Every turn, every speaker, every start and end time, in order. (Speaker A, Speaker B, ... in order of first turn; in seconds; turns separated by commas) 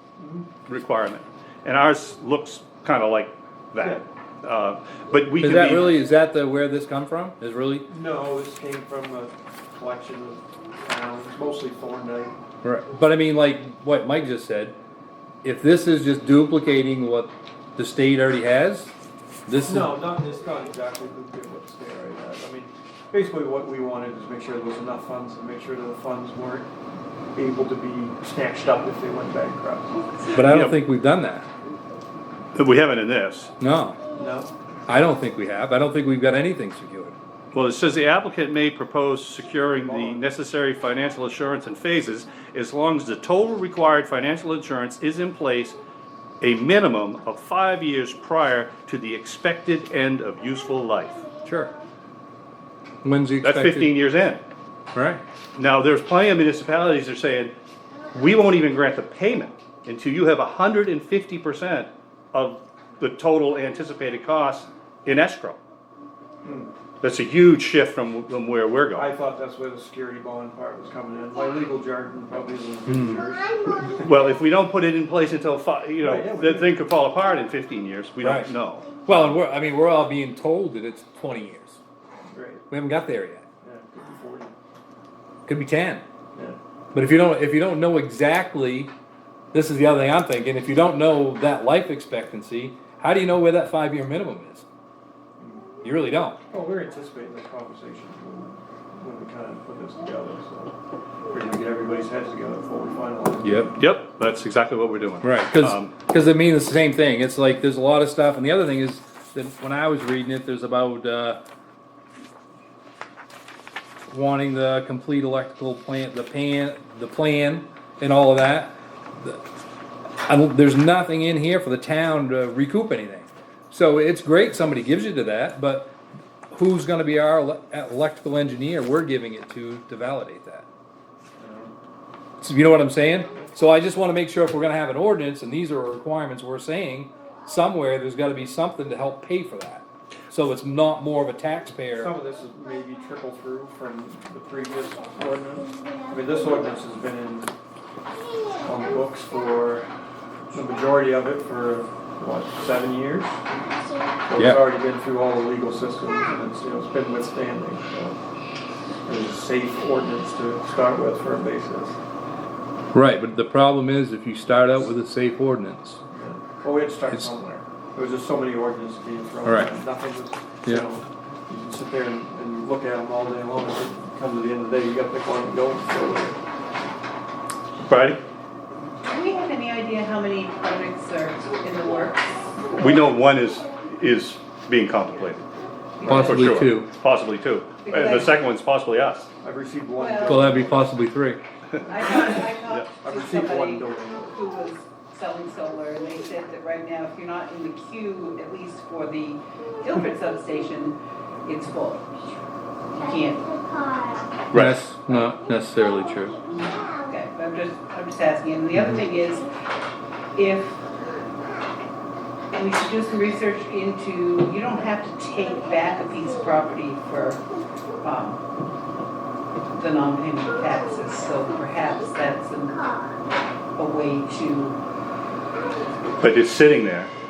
Speaker A: 0.2-0.5, Speaker B: 0.7-5.9, Speaker C: 5.4-7.9, Speaker A: 7.9-12.3, Speaker C: 12.6-14.7, Speaker C: 15.4-18.9, Speaker C: 19.5-20.0, Speaker A: 19.6-26.7, Speaker A: 27.3-30.1, Speaker C: 30.3-31.5, Speaker B: 30.3-30.8, Speaker B: 32.5-33.5, Speaker C: 33.6-34.1, Speaker A: 34.1-34.5, Speaker C: 34.9-37.1, Speaker B: 37.5-45.8, Speaker A: 39.8-40.2, Speaker B: 46.4-51.3, Speaker C: 51.4-51.7, Speaker C: 53.0-53.9, Speaker B: 53.4-54.4, Speaker C: 54.9-55.2, Speaker B: 55.5-57.5, Speaker B: 58.1-65.6, Speaker A: 66.4-66.7, Speaker B: 67.0-69.1, Speaker A: 68.9-74.1, Speaker C: 72.9-73.2, Speaker B: 73.7-79.0, Speaker A: 76.0-76.7, Speaker C: 78.2-78.5, Speaker C: 79.0-81.8, Speaker A: 82.3-82.6, Speaker C: 82.7-83.5, Speaker A: 83.6-84.5, Speaker C: 85.5-86.0, Speaker C: 86.9-88.9, Speaker C: 89.5-94.6, Speaker A: 95.4-95.7, Speaker C: 95.8-96.4, Speaker A: 96.5-100.7, Speaker A: 101.3-103.7, Speaker C: 103.4-103.7, Speaker B: 103.8-105.9, Speaker C: 105.2-111.4, Speaker C: 114.1-119.4, Speaker C: 120.2-125.9, Speaker C: 126.5-130.7, Speaker A: 131.4-131.7, Speaker C: 132.4-142.1, Speaker A: 141.9-147.5, Speaker A: 148.6-149.9, Speaker A: 150.5-153.4, Speaker A: 154.2-158.2, Speaker C: 154.4-154.6, Speaker A: 159.1-162.0, Speaker C: 162.9-166.0, Speaker A: 166.1-176.4, Speaker C: 169.4-169.7, Speaker B: 177.9-178.2, Speaker D: 179.0-182.5, Speaker B: 182.8-185.4, Speaker D: 186.0-186.6, Speaker B: 186.0-189.3, Speaker C: 186.1-186.9, Speaker D: 187.8-188.3, Speaker A: 189.4-190.8, Speaker D: 190.0-190.5, Speaker C: 190.2-191.4, Speaker D: 191.8-202.0, Speaker A: 193.0-194.4, Speaker D: 202.9-204.1, Speaker B: 204.5-204.8, Speaker C: 204.5-206.4, Speaker D: 206.5-209.5, Speaker C: 208.7-209.0, Speaker D: 210.3-210.8, Speaker D: 212.5-217.4, Speaker D: 218.0-218.4, Speaker D: 219.7-223.2, Speaker D: 223.8-224.8, Speaker B: 226.2-227.1